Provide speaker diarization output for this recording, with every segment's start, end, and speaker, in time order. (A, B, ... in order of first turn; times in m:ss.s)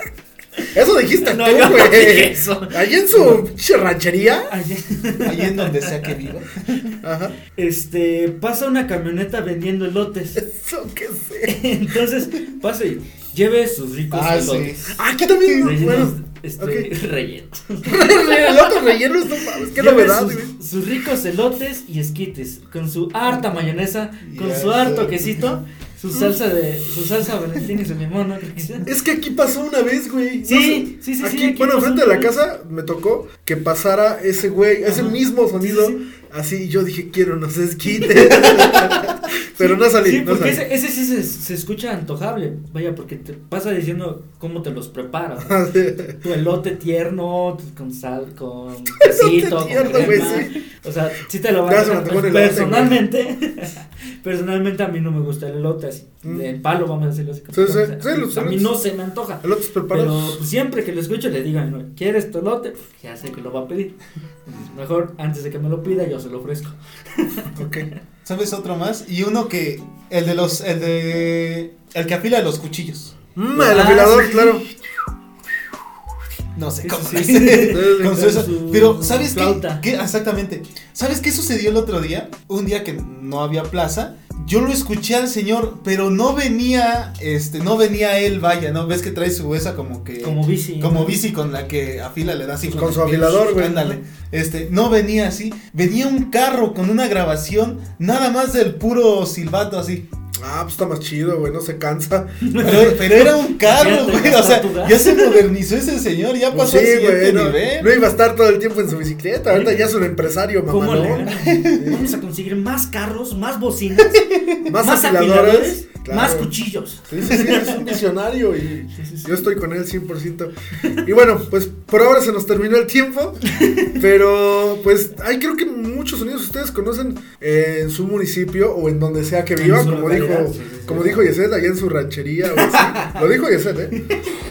0:00.7-0:04.5 A
0:01.2-0:03.4 B
0:04.5-0:06.2 B
0:05.2-0:07.0 C
0:07.0-0:07.4 A
0:07.6-0:10.4 B
0:10.4-0:11.7 A
0:11.5-0:15.0 B
0:14.1-0:15.0 C
0:14.9-0:16.9 A
0:15.5-0:15.7 C
0:15.6-0:28.9 B
0:17.8-0:20.5 A
0:24.2-0:25.5 C
0:28.8-0:40.6 A
0:30.4-0:32.3 B
0:34.8-0:36.0 B
0:38.0-0:39.1 B
0:39.6-1:04.0 B
0:45.4-0:46.2 A
0:49.0-0:50.5 A
0:51.7-0:53.0 A
0:56.2-0:56.5 A
0:57.5-0:58.8 A
0:59.4-1:00.4 A
1:04.5-1:07.7 B
1:07.6-1:07.9 A
1:08.2-1:13.1 C
1:13.4-1:14.6 A
1:13.6-1:14.7 B
1:16.6-1:40.0 C
1:16.8-1:19.8 B
1:17.6-1:18.3 A
1:30.2-1:31.2 B
1:32.6-1:34.0 A
1:40.4-1:43.0 A
1:42.4-1:45.4 B
1:42.6-1:47.9 C
1:46.5-1:52.1 A
1:49.5-1:49.9 B
1:50.7-1:54.2 B
1:51.3-1:52.0 C
1:54.1-1:54.5 C
1:54.7-1:56.5 A
1:54.8-1:58.0 B
1:57.1-2:03.4 A
1:59.0-1:59.4 B
2:03.5-2:03.9 B
2:03.9-2:14.0 A
2:09.6-2:11.3 B
2:12.6-2:13.1 B